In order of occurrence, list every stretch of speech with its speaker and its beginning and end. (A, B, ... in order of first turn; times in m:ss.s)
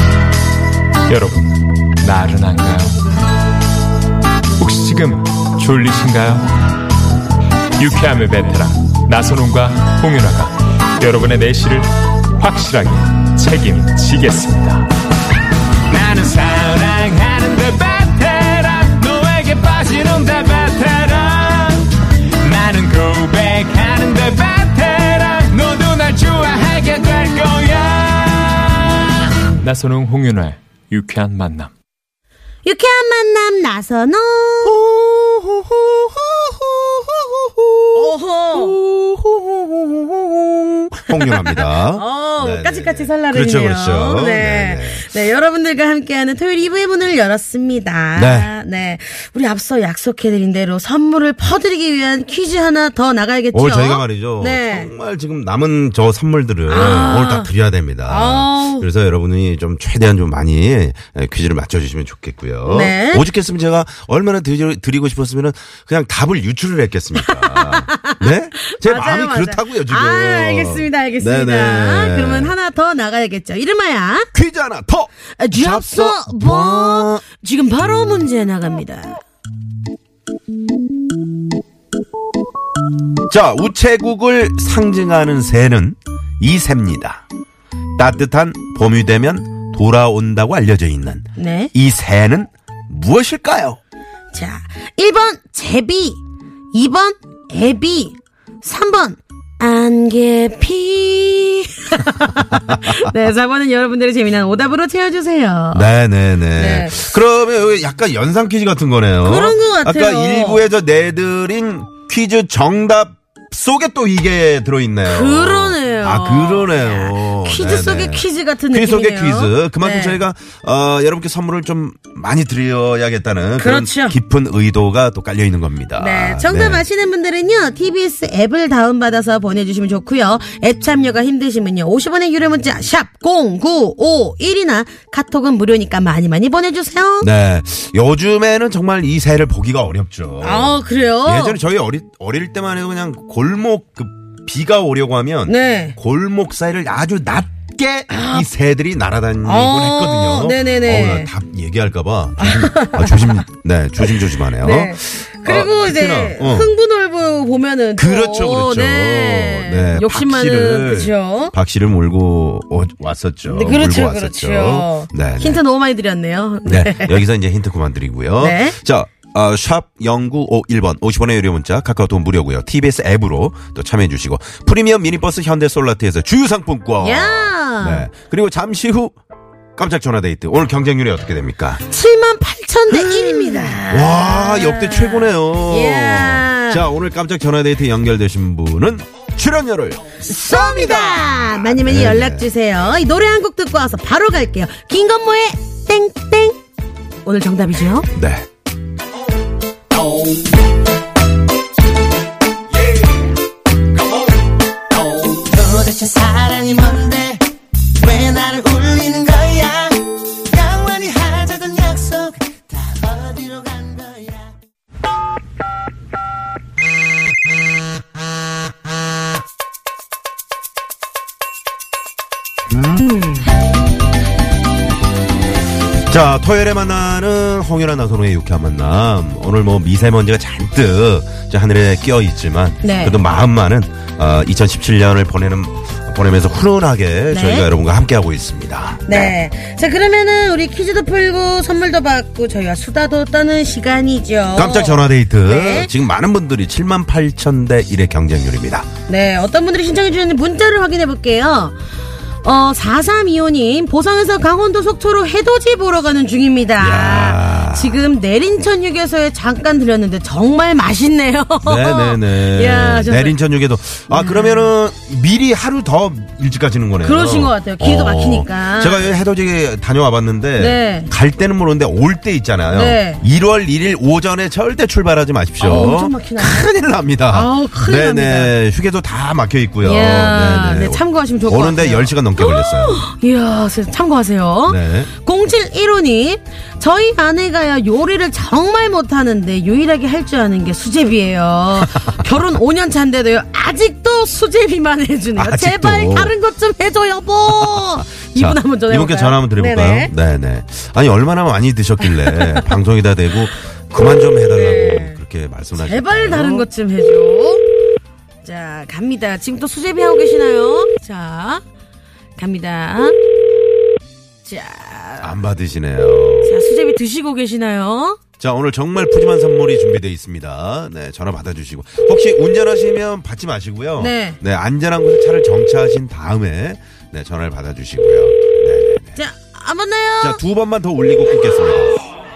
0:01.1-0:03.0 A
0:04.6-0:06.5 A
0:07.8-0:14.9 A
0:15.9-0:31.7 A
0:32.6-0:34.8 B
0:34.6-0:45.0 C
0:38.0-0:38.8 B
0:41.9-0:54.9 B
0:48.2-0:48.5 C
0:53.5-1:12.6 C
0:56.7-0:57.5 B
0:58.1-0:58.9 B
1:02.7-1:03.3 B
1:07.2-1:14.3 B
1:14.3-1:17.2 C
1:15.4-1:19.2 B
1:23.3-1:27.2 C
1:28.0-1:33.8 C
1:31.4-1:31.7 B
1:34.3-1:36.2 B
1:36.7-1:45.9 B
1:45.7-2:06.8 C
1:46.6-1:47.0 B
1:49.2-1:50.6 B
1:55.0-2:00.2 B
2:03.6-2:04.2 B
2:06.0-2:17.3 B
2:17.2-2:36.7 C
2:20.4-2:21.6 B
2:25.5-2:26.0 B
2:28.1-2:28.5 B
2:29.4-2:31.3 B
2:32.4-2:33.3 B
2:34.0-2:41.5 B
2:38.0-2:45.6 C
2:43.4-2:47.2 B
2:46.6-2:59.2 C
2:48.4-2:48.8 B
2:57.0-2:58.1 B
2:59.8-3:01.8 C
3:01.9-3:06.9 B
3:02.9-3:12.5 C
3:10.2-3:16.6 B
3:17.2-3:18.1 B
3:18.2-3:18.5 C
3:25.4-3:27.4 D
3:28.0-3:30.0 D
3:30.5-3:32.4 D
3:32.9-3:34.4 D
3:46.1-3:59.4 C
3:52.8-3:53.2 B
3:57.3-3:57.7 B
3:59.1-4:05.9 B
4:04.6-4:08.9 C
4:09.1-4:11.8 B
4:12.4-4:23.4 B
4:16.8-4:18.0 C
4:21.6-4:43.1 C
4:24.1-4:24.7 B
4:27.0-4:29.1 B
4:30.6-4:31.1 B
4:32.7-4:33.2 B
4:35.6-4:36.7 B
4:37.3-4:38.5 B
4:39.8-5:00.1 B
4:44.7-4:45.1 C
4:51.8-4:52.4 C
4:55.4-4:56.4 C
4:57.5-5:06.7 C
5:02.0-5:02.6 B
5:04.5-5:05.2 B
5:05.7-5:07.6 B
5:08.4-5:11.6 B
5:12.4-5:13.2 B
5:14.4-5:15.4 B
5:15.2-5:16.5 C
5:16.4-5:18.2 B
5:18.4-5:29.2 C
5:24.0-5:24.4 B
5:29.2-5:30.4 B
5:30.2-5:32.0 C